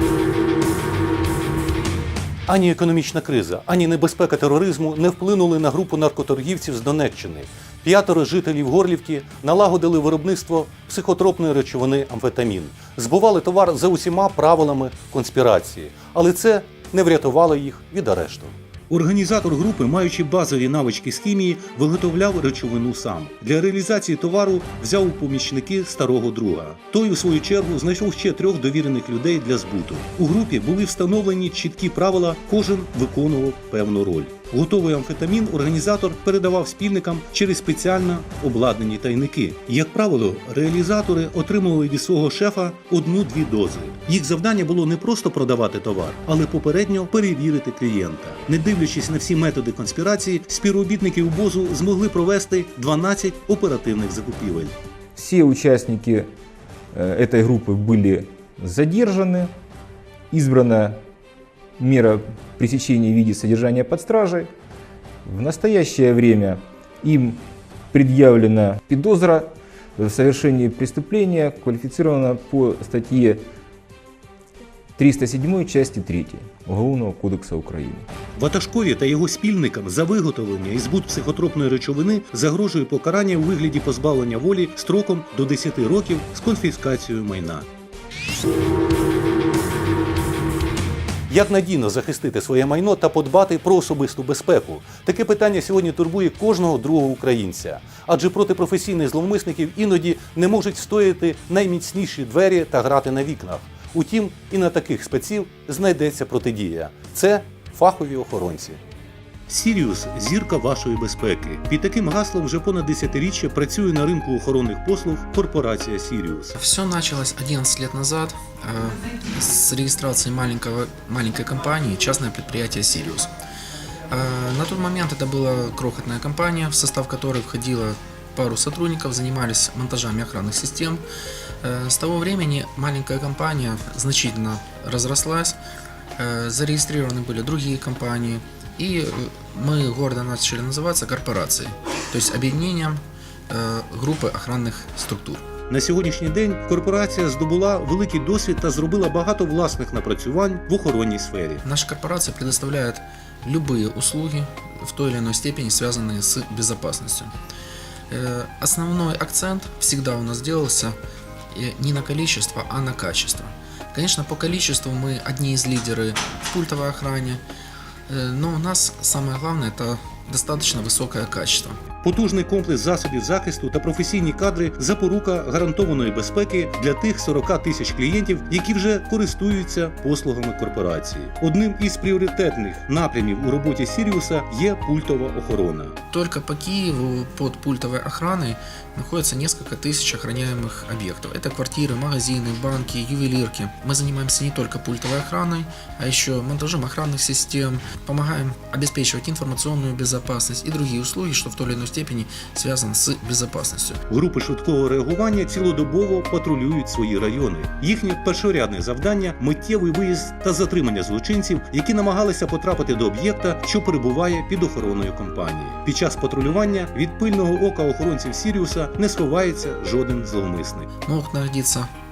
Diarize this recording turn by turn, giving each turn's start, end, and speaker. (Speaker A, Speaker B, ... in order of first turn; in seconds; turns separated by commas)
Speaker A: 2.5-54.7, Speaker B: 55.1-56.3, Speaker B: 56.9-59.5, Speaker B: 60.3-61.0, Speaker B: 61.8-64.5, Speaker B: 65.2-73.4, Speaker B: 75.0-78.1, Speaker A: 78.3-87.7, Speaker A: 91.3-108.8, Speaker A: 109.5-116.5, Speaker C: 116.5-123.3, Speaker C: 124.1-131.0, Speaker C: 131.6-135.6, Speaker C: 136.2-145.4, Speaker A: 145.7-151.6, Speaker C: 151.6-157.3, Speaker C: 158.1-160.9, Speaker C: 161.5-167.4, Speaker C: 168.1-171.8, Speaker A: 172.0-185.9, Speaker C: 186.1-204.0, Speaker A: 204.1-220.9, Speaker C: 221.0-221.9